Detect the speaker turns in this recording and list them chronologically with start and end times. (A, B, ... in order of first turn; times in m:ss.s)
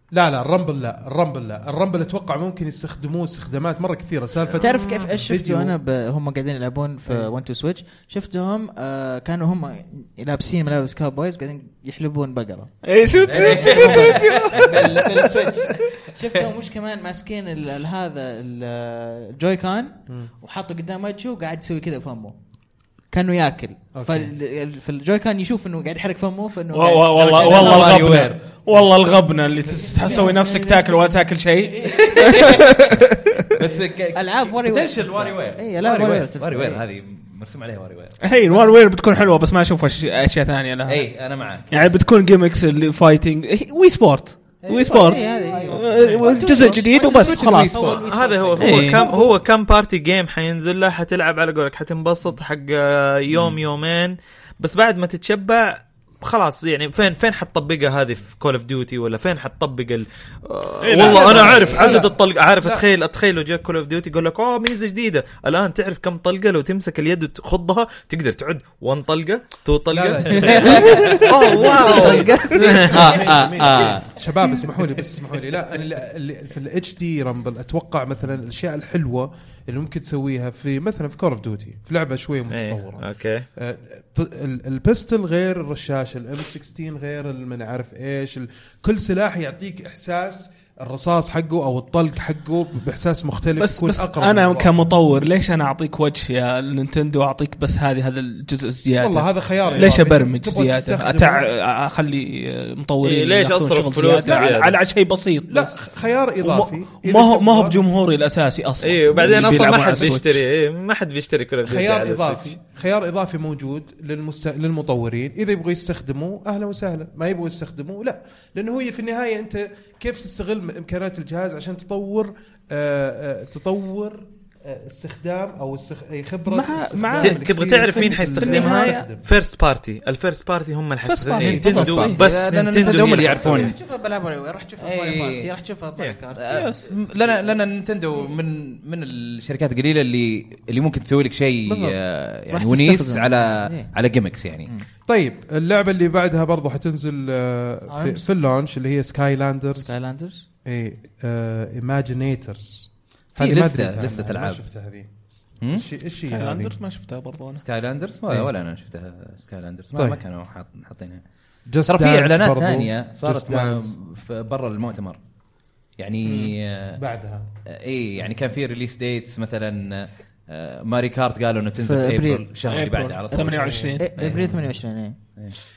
0:00.1-0:05.8 A
0:04.6-0:05.1 B
0:04.6-0:12.7 C
0:12.8-0:15.2 D
0:13.2-0:15.1 E
0:13.2-0:22.4 C
0:23.1-0:28.0 C
0:23.9-0:24.3 A
0:26.7-0:33.4 D
0:27.2-0:28.4 E
0:29.7-0:31.2 C
0:31.8-0:32.5 C
0:32.0-0:32.7 E
0:33.5-0:38.2 E
0:34.1-0:36.8 C
0:38.2-0:48.0 D
0:40.9-0:41.9 E
0:44.6-0:49.1 E
0:44.7-0:49.2 C
0:47.9-1:13.0 B
0:48.6-0:49.0 D
0:48.8-0:49.3 A
1:00.8-1:01.8 D
1:01.0-1:02.9 A
1:09.9-1:35.0 A
1:10.4-1:13.2 C
1:10.8-1:11.2 D
1:12.8-1:14.2 E
1:22.5-1:23.5 B
1:33.6-1:45.8 D
1:39.0-1:41.4 A
1:43.0-1:44.8 B
1:44.2-1:44.6 A
1:45.5-1:47.8 A
1:46.4-1:50.4 D
1:48.8-1:52.5 B
1:51.6-2:09.2 A
2:06.5-2:09.1 D
2:07.2-2:13.7 B
2:11.0-2:12.3 D
2:11.4-2:13.8 E
2:12.9-2:16.9 C
2:14.8-2:15.5 E
2:16.4-2:24.7 E
2:16.5-2:16.9 D
2:21.7-2:22.0 C
2:22.5-2:23.9 C
2:25.1-2:29.9 A
2:27.9-2:28.3 C
2:29.8-2:30.5 C
2:30.6-2:35.1 A
2:33.4-2:34.6 E
2:35.6-2:35.9 E
2:35.7-2:36.8 A
2:36.3-2:37.6 D
2:37.6-2:41.2 E
2:40.0-2:40.2 A
2:41.7-2:44.0 A
2:41.9-2:45.2 E
2:46.0-2:47.0 E
2:46.3-2:46.6 D
2:47.0-2:47.5 A
2:47.7-2:54.6 E
2:51.8-2:52.5 C
2:52.7-2:54.1 D
2:53.3-2:55.2 C
2:53.4-2:54.7 A